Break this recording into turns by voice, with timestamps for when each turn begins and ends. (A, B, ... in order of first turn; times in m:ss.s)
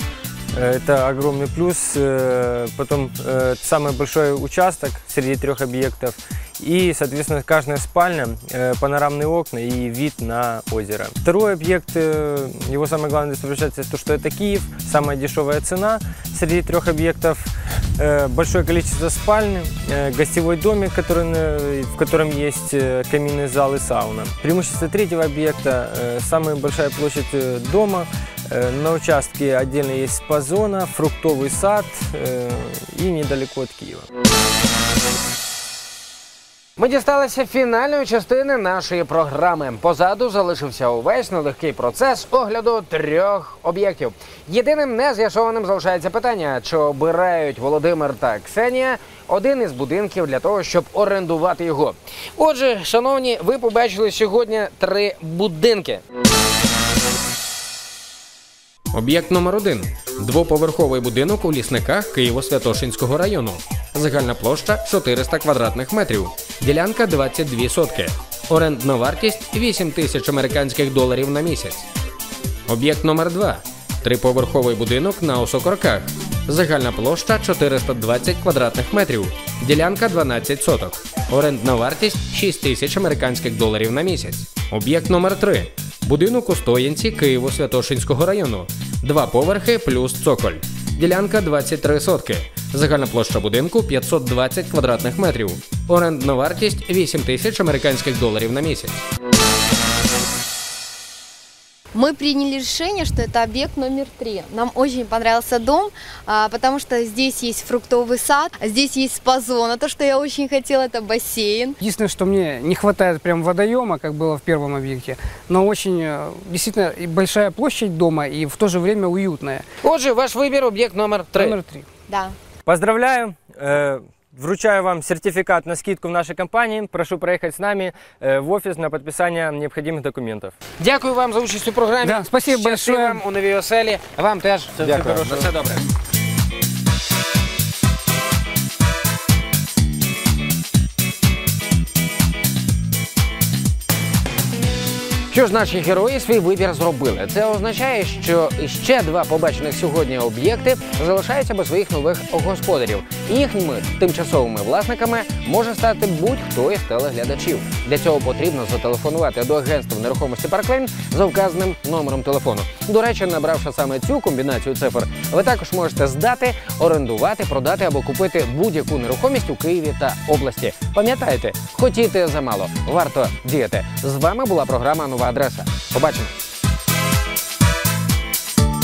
0:00.5-0:34.1 A
0:36.8-0:56.0 B
0:58.9-1:11.9 B
1:12.7-1:39.0 B
1:41.9-1:51.8 C
1:51.8-1:59.6 D
1:59.8-2:01.6 B
2:01.4-2:01.9 D
2:02.1-2:02.4 C
2:02.6-2:10.6 A
2:10.8-2:15.9 B
2:12.0-2:13.2 D
2:14.8-2:15.5 A
2:25.3-2:56.4 B